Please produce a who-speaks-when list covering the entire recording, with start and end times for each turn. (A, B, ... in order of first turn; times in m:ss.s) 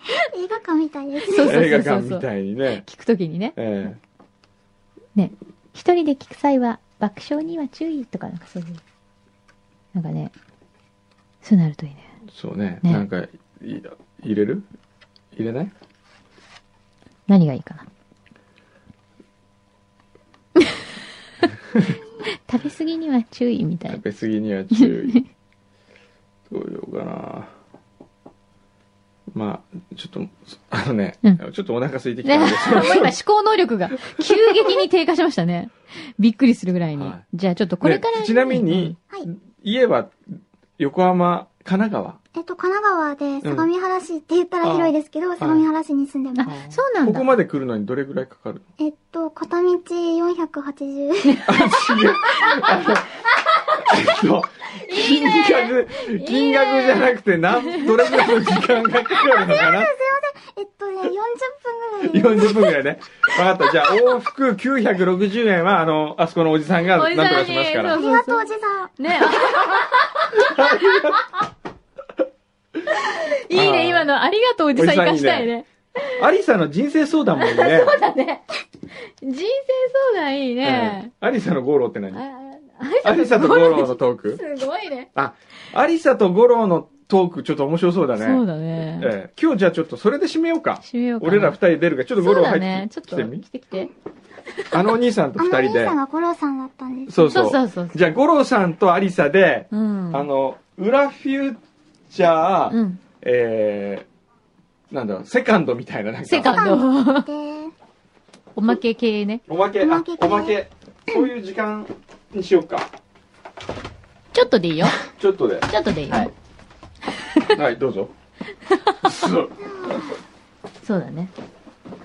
0:00.3-0:01.5 A
0:01.2-0:03.6 B
0:01.4-0:02.8 C
0:03.6-0:04.0 C
0:05.2-0:08.8 B
0:09.9-0:10.3 B
0:11.4-0:12.1 B
0:12.3-0:14.7 C
0:15.4-0:15.7 C
0:17.3-0:17.9 B
0:22.5-0:24.0 B
0:23.9-0:25.2 C
0:24.7-0:25.2 B
0:26.5-0:27.5 C
0:29.3-0:33.2 C
0:32.2-0:39.0 B
0:37.0-0:37.2 C
0:37.8-0:40.2 C
0:40.8-0:42.2 C
0:42.4-0:46.5 A
0:43.4-0:43.7 C
0:44.6-0:45.6 C
0:46.4-0:47.3 B
0:46.4-0:48.6 C
0:48.8-0:51.4 A
0:51.2-0:51.6 B
0:51.5-0:53.2 C
0:53.8-0:59.9 C
0:54.8-0:57.1 B
0:57.7-0:58.5 B
0:59.4-1:02.7 A
1:02.0-1:08.0 C
1:07.0-1:08.5 B
1:07.9-1:08.9 A
1:09.0-1:11.1 B
1:10.3-1:11.2 C
1:12.9-1:16.1 B
1:13.5-1:14.1 C
1:14.8-1:15.5 C
1:16.1-1:18.0 C
1:17.4-1:18.4 B
1:19.2-1:21.1 B
1:20.6-1:22.2 C
1:22.1-1:25.1 B
1:23.0-1:24.4 C
1:25.2-1:33.4 C
1:28.2-1:29.1 B
1:30.8-1:31.6 B
1:32.2-1:33.9 B
1:34.7-1:36.0 C
1:35.4-1:37.3 A
1:37.1-1:44.1 C
1:37.2-1:38.1 B
1:39.7-1:40.3 B
1:42.7-1:43.0 B
1:44.9-1:46.7 C
1:46.2-1:47.3 B
1:46.5-1:47.7 A
1:48.6-1:49.4 B
1:49.5-1:52.9 C
1:49.8-1:50.6 A
1:54.3-1:55.0 B
1:55.0-1:55.7 C
1:55.7-1:56.3 B
1:57.5-1:58.1 C
1:59.0-1:59.5 C
1:59.6-2:00.2 A
2:00.8-2:01.3 B